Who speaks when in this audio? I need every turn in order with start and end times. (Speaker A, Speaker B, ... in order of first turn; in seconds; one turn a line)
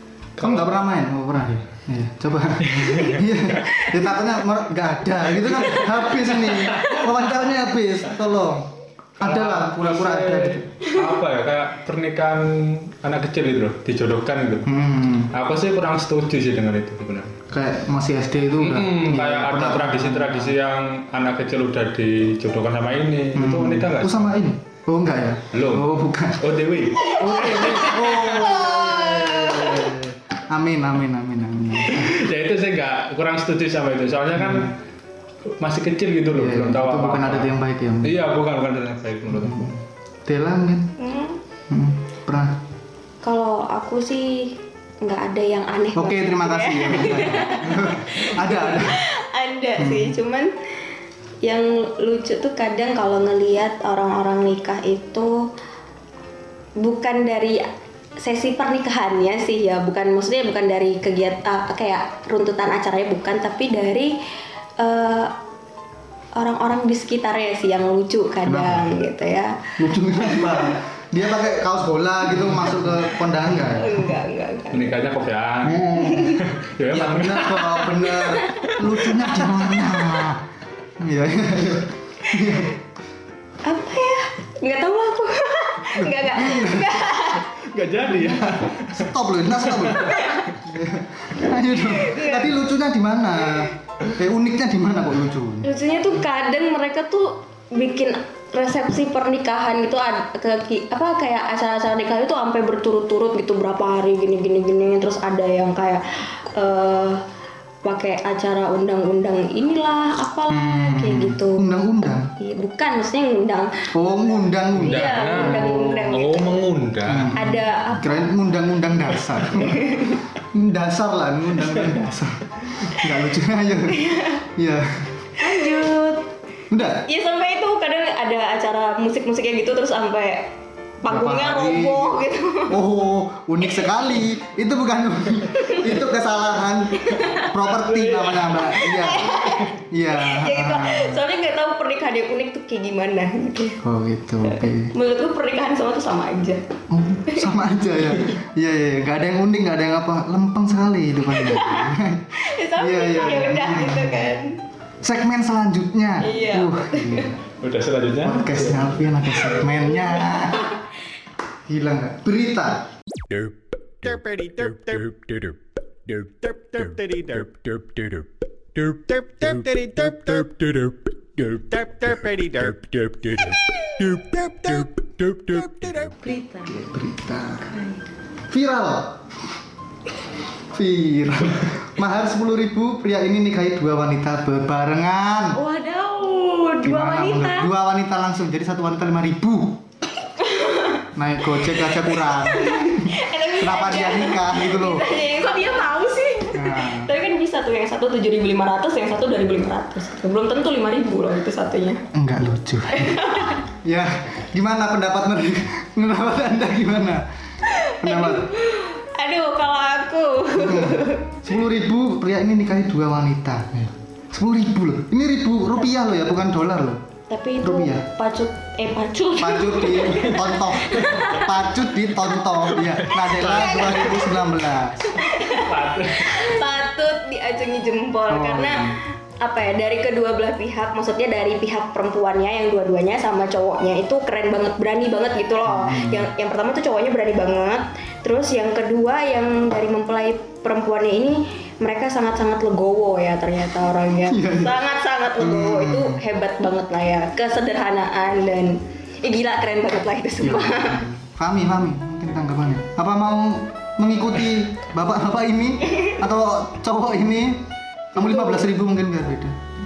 Speaker A: 0.4-10.7
Speaker B: 0.4-0.8
Speaker B: 2.6-3.2
Speaker B: 9.2-14.7
Speaker A: 14.7-15.3
Speaker B: 15.3-17.4
Speaker A: 17.5-20.6
Speaker B: 18.6-24.3
Speaker A: 23.4-26.4
Speaker B: 25.5-25.9
Speaker B: 26.4-28.6
Speaker A: 27.1-32.2
Speaker C: 28.3-29.9
Speaker B: 31.9-34.8
Speaker A: 34.4-34.7
Speaker B: 35.6-37.5
Speaker A: 36.3-38.2
Speaker B: 38.0-39.7
Speaker A: 39.3-40.9
Speaker C: 41.0-41.4
Speaker A: 41.7-42.6
Speaker C: 43.2-50.5
Speaker A: 45.9-49.1
Speaker A: 49.8-50.2
Speaker C: 51.4-55.5
Speaker C: 56.8-57.7
Speaker C: 58.2-64.2
Speaker C: 64.8-65.3
Speaker C: 66.3-70.8
Speaker A: 68.5-69.0
Speaker A: 69.8-74.2
Speaker C: 73.6-75.0
Speaker B: 74.7-78.1
Speaker A: 75.6-80.5
Speaker C: 76.0-76.3
Speaker C: 78.2-78.6
Speaker B: 78.7-79.8
Speaker A: 81.0-82.8
Speaker C: 83.6-87.5
Speaker A: 86.0-87.0
Speaker B: 87.4-90.3
Speaker A: 88.0-95.7
Speaker C: 91.8-92.5
Speaker C: 95.6-107.2
Speaker C: 107.8-111.7
Speaker A: 110.5-112.3
Speaker C: 112.4-113.9
Speaker A: 113.9-116.2
Speaker C: 114.8-116.6
Speaker B: 114.8-117.4
Speaker A: 117.0-125.1
Speaker C: 117.3-118.3
Speaker C: 119.6-120.2
Speaker C: 123.9-124.4
Speaker D: 125.4-126.2
Speaker C: 125.5-125.9
Speaker A: 126.7-127.0
Speaker C: 126.9-132.8
Speaker A: 131.1-132.2
Speaker A: 132.7-141.2
Speaker C: 137.0-137.5
Speaker C: 138.6-143.8
Speaker A: 143.8-144.9
Speaker C: 144.5-146.6
Speaker A: 146.9-154.3
Speaker C: 151.3-154.6
Speaker A: 155.0-157.4
Speaker C: 156.2-157.3
Speaker B: 157.6-158.9
Speaker A: 158.2-160.7
Speaker C: 159.9-160.7
Speaker A: 161.7-162.9
Speaker E: 163.3-176.2
Speaker D: 176.2-176.7
Speaker A: 176.7-177.8
Speaker D: 177.7-178.0
Speaker A: 178.5-179.2
Speaker A: 180.7-185.6
Speaker D: 185.6-187.7
Speaker A: 186.8-189.8
Speaker C: 190.4-196.1
Speaker A: 191.2-195.1
Speaker D: 195.2-196.8
Speaker A: 196.5-197.1
Speaker C: 196.6-202.1
Speaker A: 202.1-207.3
Speaker C: 202.9-203.6
Speaker C: 207.7-211.3
Speaker A: 208.0-208.5
Speaker A: 210.6-217.0
Speaker C: 217.3-221.1
Speaker A: 217.6-218.1
Speaker A: 219.4-225.2
Speaker B: 222.8-224.3
Speaker C: 225.1-251.0
Speaker B: 225.3-226.6
Speaker A: 228.3-229.0
Speaker A: 235.7-236.3
Speaker A: 244.2-244.8
Speaker A: 245.4-246.2
Speaker A: 250.4-259.6